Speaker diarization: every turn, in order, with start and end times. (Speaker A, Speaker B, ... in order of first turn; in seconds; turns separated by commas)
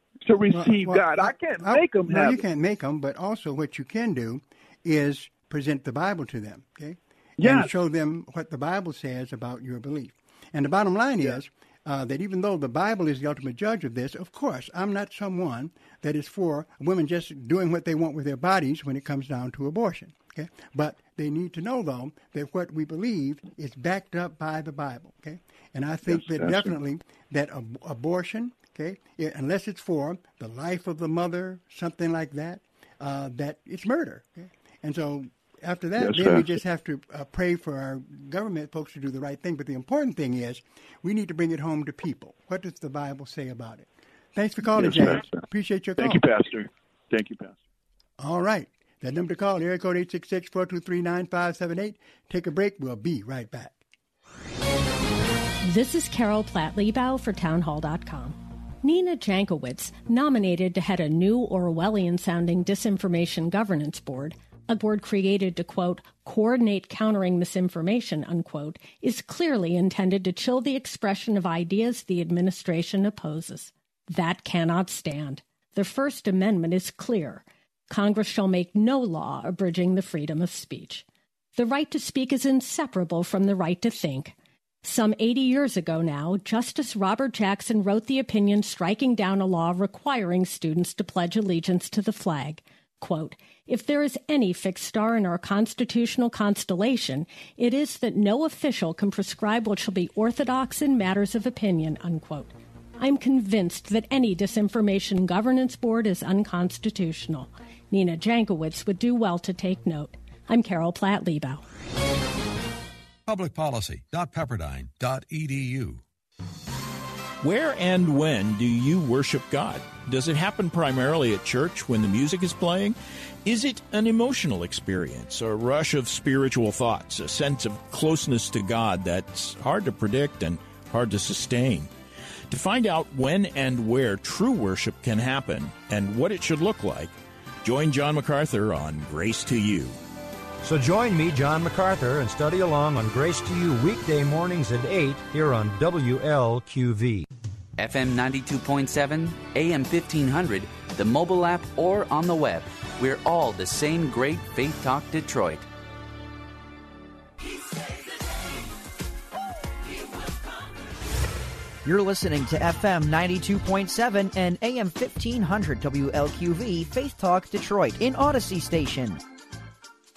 Speaker A: 0.2-2.4, Speaker B: 0.5-46.2, Speaker A: 7.4-7.7, Speaker A: 26.0-26.8, Speaker A: 36.0-36.6, Speaker A: 44.6-45.4, Speaker A: 46.0-47.6, Speaker B: 48.2-53.8, Speaker C: 55.6-81.0, Speaker C: 81.5-111.6, Speaker D: 113.3-116.0, Speaker E: 117.4-131.9, Speaker E: 132.5-140.0, Speaker D: 140.6-147.2, Speaker F: 147.8-155.6, Speaker G: 161.8-169.2